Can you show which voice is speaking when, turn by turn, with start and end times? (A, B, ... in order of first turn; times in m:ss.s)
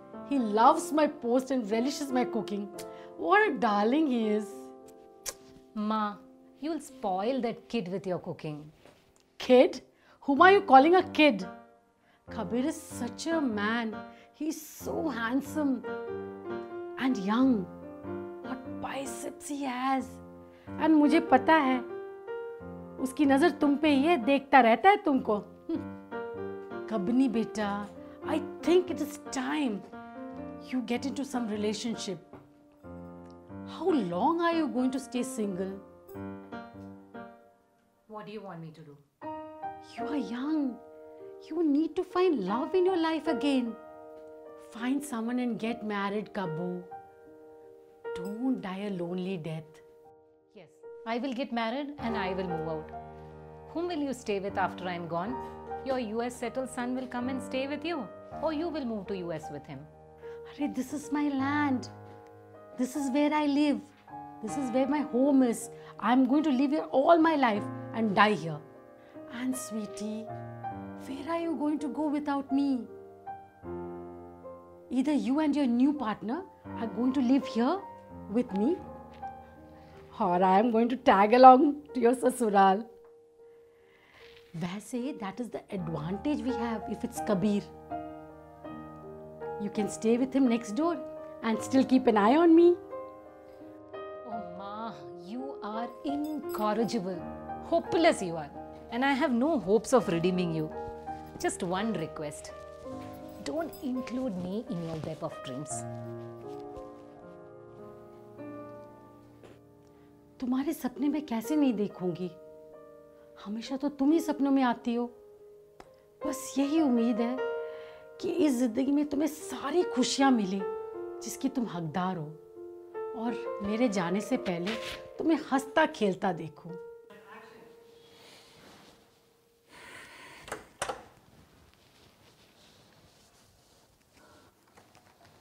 0:00.3-0:04.7 A
0:05.7-0:08.7 B
0:09.4-0:11.5 A
0:12.3-0:15.9 A
0:17.0-0:17.7 A
0:18.4-0:20.2 A
0:20.8-0:21.9 A
0:23.0-0:25.9 A
0:26.9-0:29.8 A
0:30.6-0:32.3 A
0:33.7-0:35.8 A
0:38.1-0:39.0 B
0:39.8-0:40.8 A
0:41.4-0:43.8 A
0:44.6-0:46.9 A
0:48.1-0:49.8 A
0:50.5-0:52.9 B
0:53.7-0:59.9 B
1:00.5-1:01.9 A
1:02.8-1:08.6 A
1:09.3-1:10.3 A
1:11.0-1:12.9 A
1:14.9-1:18.8 A
1:20.1-1:22.9 A
1:24.6-1:27.7 A
1:29.6-1:32.8 A
1:34.2-1:40.7 B
1:41.4-1:42.5 B
1:43.4-1:45.8 B
1:50.4-1:52.4 A
1:53.4-1:55.1 A
1:56.2-1:57.4 A
1:58.2-2:00.7 A
2:01.2-2:02.4 A
2:03.1-2:06.8 A